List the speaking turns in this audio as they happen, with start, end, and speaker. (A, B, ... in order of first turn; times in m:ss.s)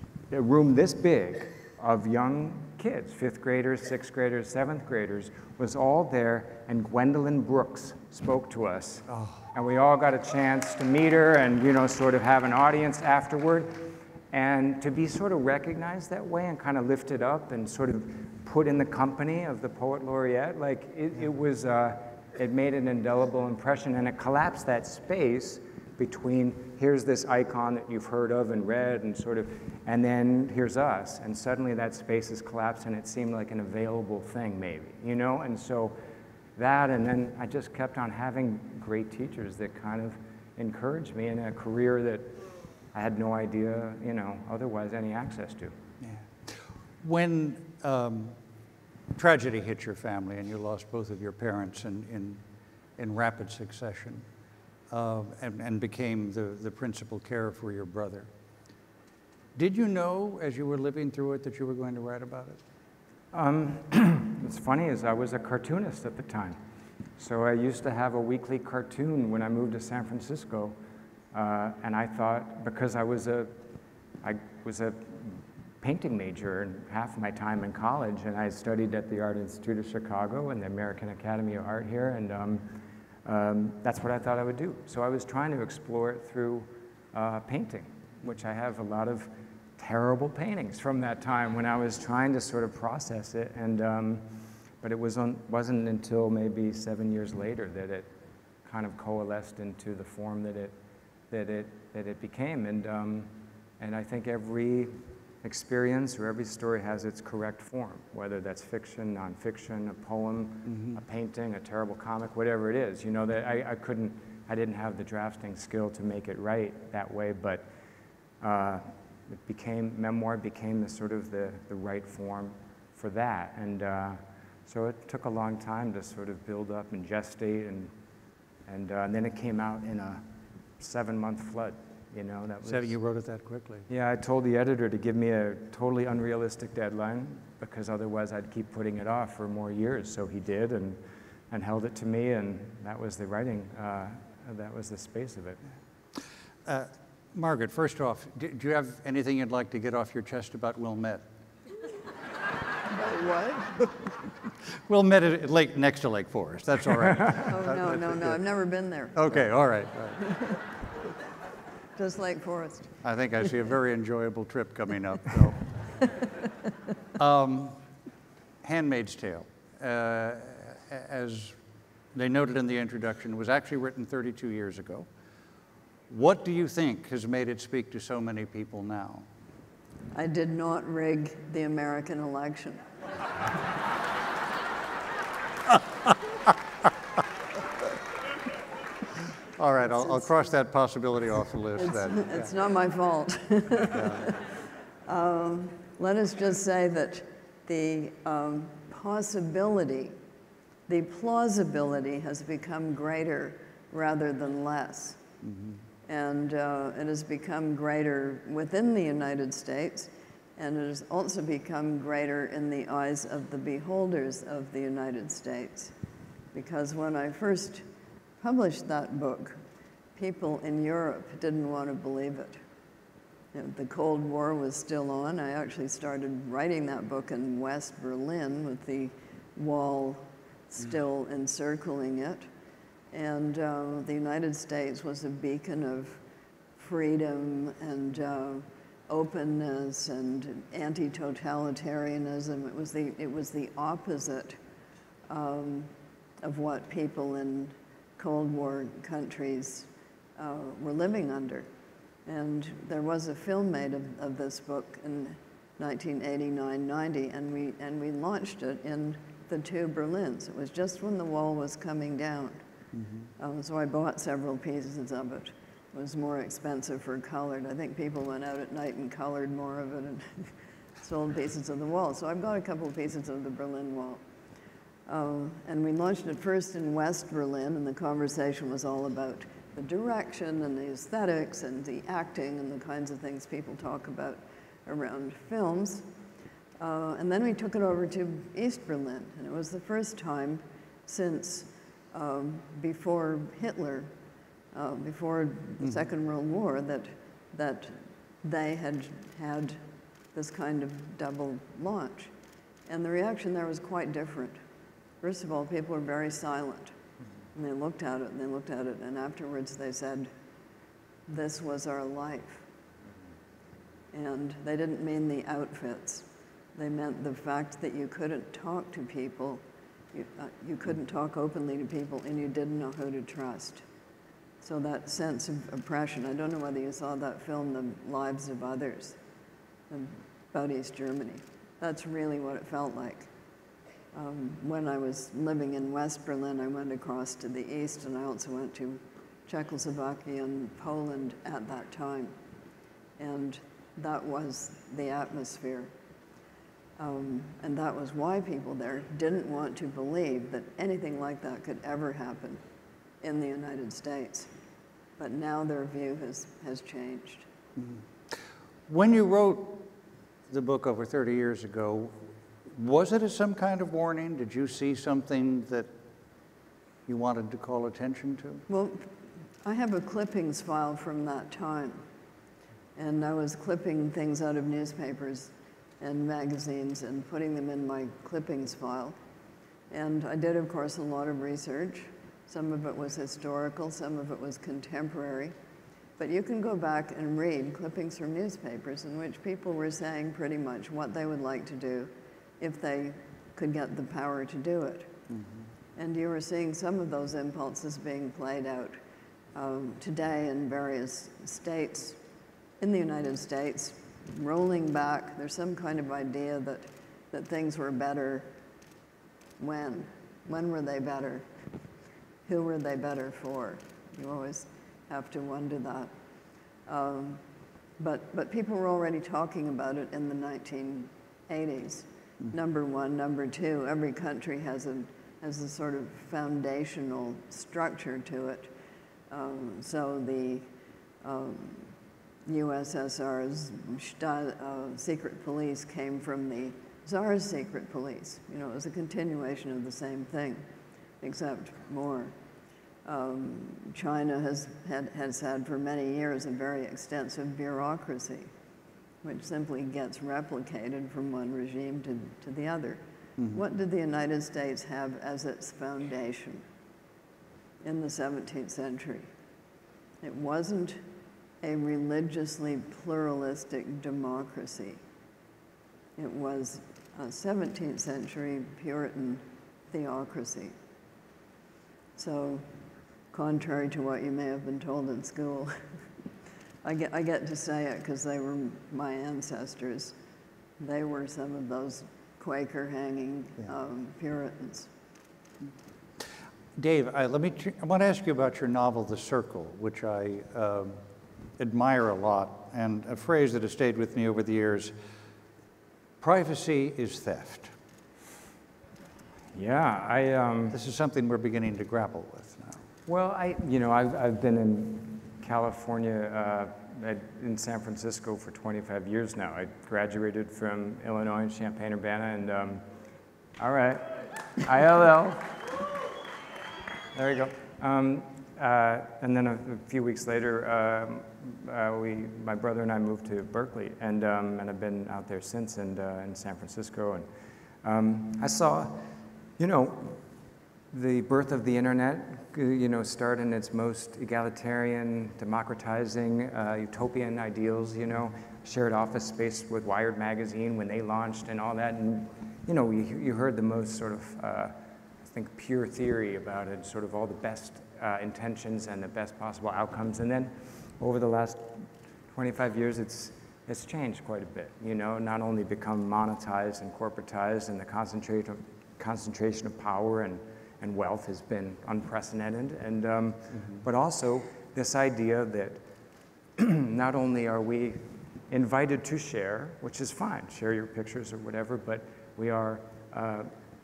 0:00.3-0:36.0 A
0:09.1-0:09.4 B
0:36.6-0:42.4 A
0:42.9-0:45.8 A
0:46.0-0:48.4 B
0:49.1-0:52.4 B
0:53.0-0:54.2 B
0:54.9-0:58.3 B
0:59.6-1:02.6 B
1:03.3-1:06.6 A
1:07.2-1:10.8 A
1:11.3-1:13.6 A
1:14.2-1:34.3 A
1:34.8-1:38.1 A
1:38.6-1:40.7 A
1:41.3-1:43.3 A
1:43.8-1:57.7 A
1:50.7-1:51.0 B
1:58.4-2:07.9 A
2:08.7-2:10.2 A
2:10.8-2:12.9 A
2:12.6-2:13.9 B
2:13.9-2:25.6 A
2:26.6-2:31.2 B
2:32.9-2:33.8 C
2:34.7-2:38.4 B
2:37.4-2:39.3 C
2:39.1-2:40.4 B
2:42.0-2:43.0 C
2:43.0-2:45.7 B
2:47.2-2:47.8 B
2:48.6-2:51.6 B
2:52.1-2:55.1 B
2:56.1-2:59.3 B
3:00.1-3:02.8 C
3:09.6-3:12.5 B
3:09.9-3:10.3 C
3:11.8-3:14.5 C
3:13.9-3:14.3 B
3:15.1-3:20.2 C
3:20.9-3:25.2 C
3:25.4-3:25.8 B
3:26.1-3:35.9 C
3:36.5-3:37.8 C
3:38.4-3:39.6 C
3:40.2-3:42.6 C
3:43.5-3:52.5 C
3:53.1-3:56.2 C
3:56.8-4:04.6 C
4:05.3-4:11.7 C
4:12.3-4:22.6 C
4:22.9-4:23.3 B
4:23.4-4:34.2 C
4:35.1-4:46.1 C
4:46.8-4:54.1 C
4:54.7-4:59.8 C
5:00.3-5:02.3 C
5:02.9-5:04.6 C
5:05.2-5:07.0 C
5:07.6-5:10.3 C
5:11.3-5:12.6 C
5:14.1-5:23.8 C
5:24.6-5:29.2 C
5:29.9-5:33.3 C
5:34.1-5:42.4 C
5:43.2-5:45.9 C
5:47.0-5:52.6 C
5:53.2-5:54.5 C
5:55.2-5:57.5 C
5:57.8-5:59.9 B
6:00.5-6:05.9 B
6:07.1-6:08.6 B
6:08.7-6:09.1 C
6:09.6-6:12.0 C
6:13.0-6:19.2 C
6:19.9-6:25.6 C
6:26.2-6:35.1 C
6:35.3-6:35.6 B
6:36.0-6:39.0 C
6:39.5-6:42.2 C
6:42.8-6:48.5 C
6:49.6-6:51.4 C
6:52.5-6:56.1 C
6:56.9-6:57.4 C
6:58.0-7:08.7 C
7:09.3-7:10.7 C
7:11.2-7:11.9 C
7:12.5-7:20.6 C
7:21.2-7:22.3 C
7:23.0-7:28.5 C
7:29.2-7:33.0 C
7:33.5-7:36.6 C
7:37.8-7:39.3 C
7:40.2-7:41.0 C
7:41.6-7:45.0 C
7:46.2-7:50.8 C
7:52.2-7:52.7 C
7:53.3-7:55.8 C
7:56.8-8:00.2 C
8:00.8-8:04.9 C
8:06.2-8:11.0 B
8:11.6-8:14.9 B
8:16.2-8:17.7 B
8:19.5-8:20.8 A
8:20.7-8:22.8 B
8:23.1-8:32.8 A
8:33.6-8:35.8 A
8:37.1-8:47.3 A
8:47.8-8:50.2 A
8:50.9-9:25.8 A
9:26.6-9:33.5 A